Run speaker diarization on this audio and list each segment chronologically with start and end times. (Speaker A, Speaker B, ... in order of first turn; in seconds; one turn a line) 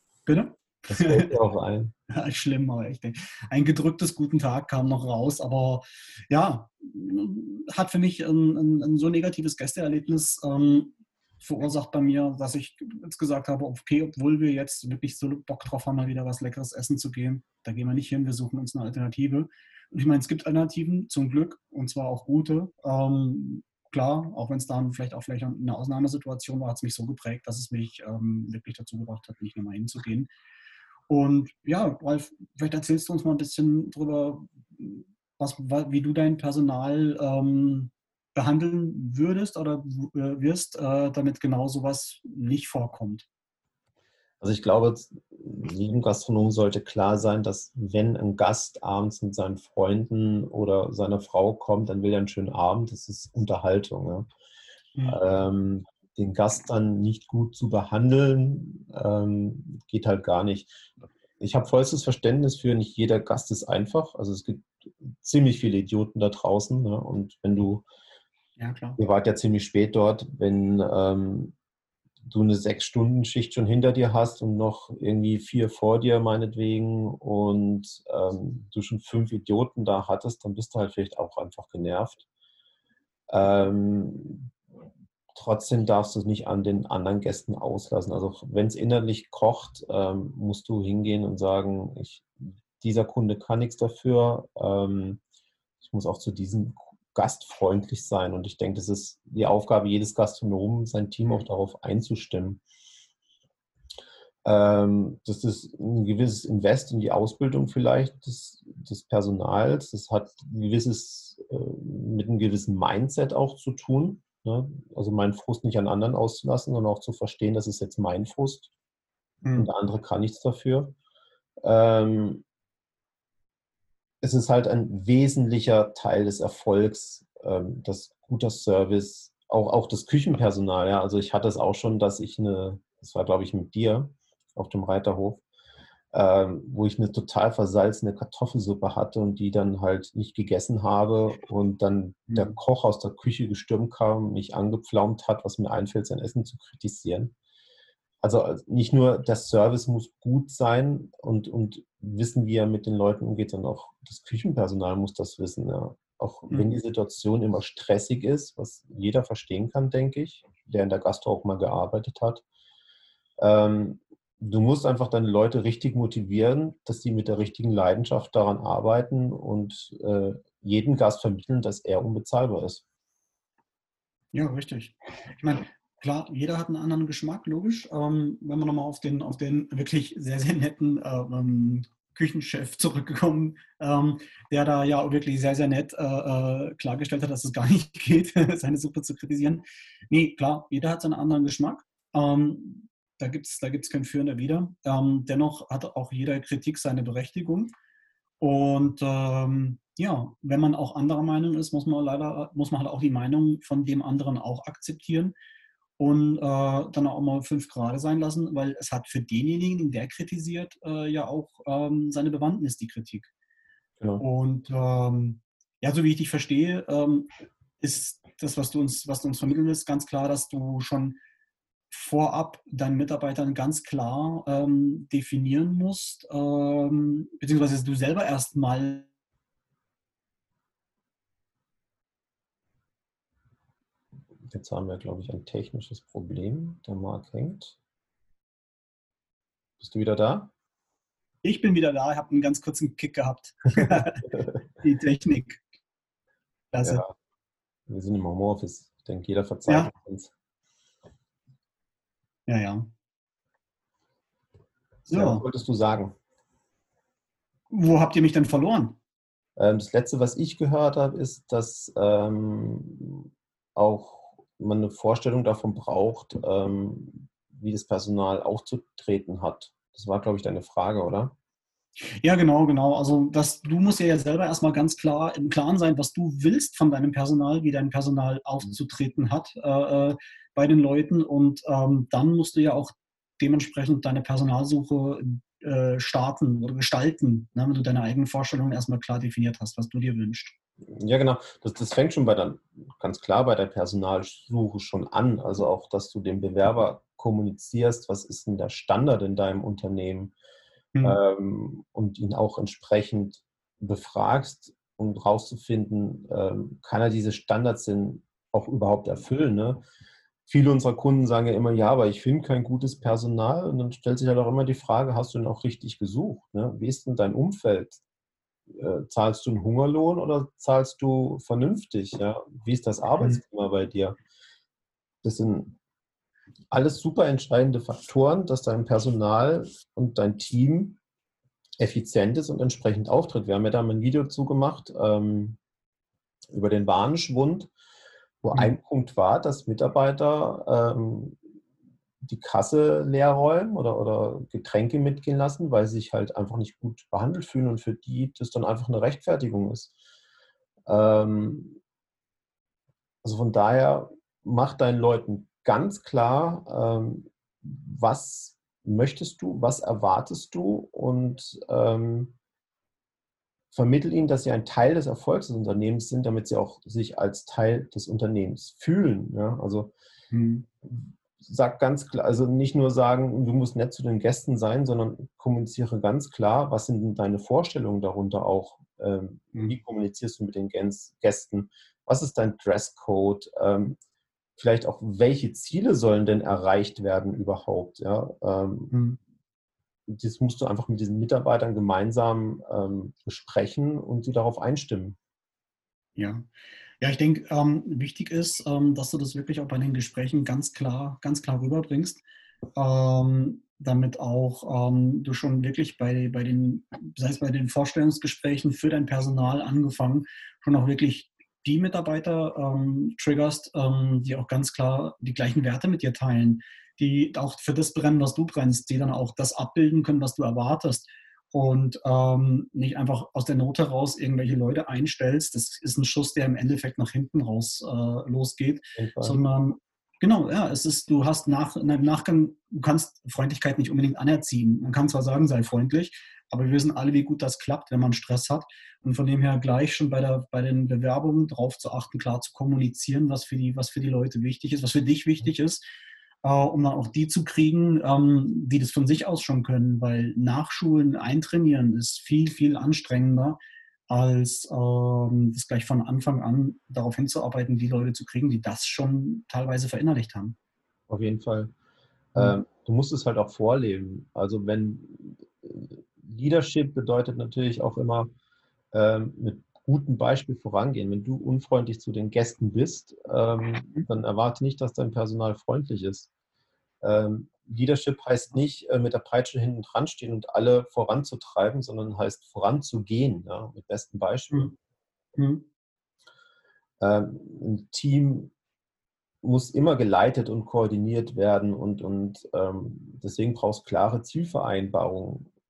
Speaker A: 0.3-1.4
Speaker B: 0.9-1.9
Speaker A: 2.1-30.3
Speaker A: 31.1-43.3
Speaker B: 44.4-54.3
Speaker A: 55.0-55.2
Speaker B: 55.1-60.7
Speaker B: 61.4-67.8
Speaker A: 68.6-69.0
Speaker B: 69.0-71.6
Speaker B: 72.3-82.2
Speaker B: 83.3-84.5
Speaker B: 85.3-95.2
Speaker B: 95.8-102.6
Speaker B: 104.5-118.7
Speaker A: 119.4-119.7
Speaker B: 119.6-121.0
Speaker B: 121.6-122.4
Speaker B: 124.2-135.4
Speaker B: 136.1-147.3
Speaker B: 148.2-162.4
Speaker A: 156.5-156.8
Speaker B: 163.4-172.8
Speaker A: 174.3-197.7
Speaker A: 198.4-205.3
Speaker A: 206.0-213.3
Speaker A: 214.2-217.3
Speaker A: 217.8-221.2
Speaker A: 221.9-229.1
Speaker B: 234.5-237.8
Speaker B: 239.8-240.5
Speaker A: 241.4-245.7
Speaker A: 246.7-247.0
Speaker B: 247.9-250.3
Speaker A: 252.5-252.9
Speaker A: 255.1-255.4
Speaker B: 255.1-256.1
Speaker A: 257.7-259.0
Speaker B: 259.6-271.3
Speaker A: 272.2-290.6
Speaker B: 290.9-300.3
Speaker B: 301.0-309.8
Speaker B: 310.5-318.0
Speaker B: 318.7-324.2
Speaker B: 325.2-325.8
Speaker B: 326.7-331.0
Speaker B: 331.8-335.6
Speaker B: 336.5-337.7
Speaker B: 338.4-341.4
Speaker B: 342.2-349.9
Speaker B: 350.9-351.8
Speaker B: 353.2-362.4
Speaker B: 363.7-369.9
Speaker A: 370.3-370.7
Speaker B: 370.8-384.0
Speaker B: 384.6-388.9
Speaker A: 388.9-389.2
Speaker B: 390.1-395.2
Speaker A: 396.2-396.5
Speaker A: 397.0-402.2
Speaker A: 402.8-445.8
Speaker B: 429.0-429.4
Speaker A: 446.4-453.6
Speaker A: 454.1-460.6
Speaker B: 461.1-461.7
Speaker B: 462.3-468.3
Speaker B: 468.9-476.3
Speaker B: 477.0-484.7
Speaker A: 485.4-485.6
Speaker B: 487.0-488.5
Speaker B: 489.4-495.5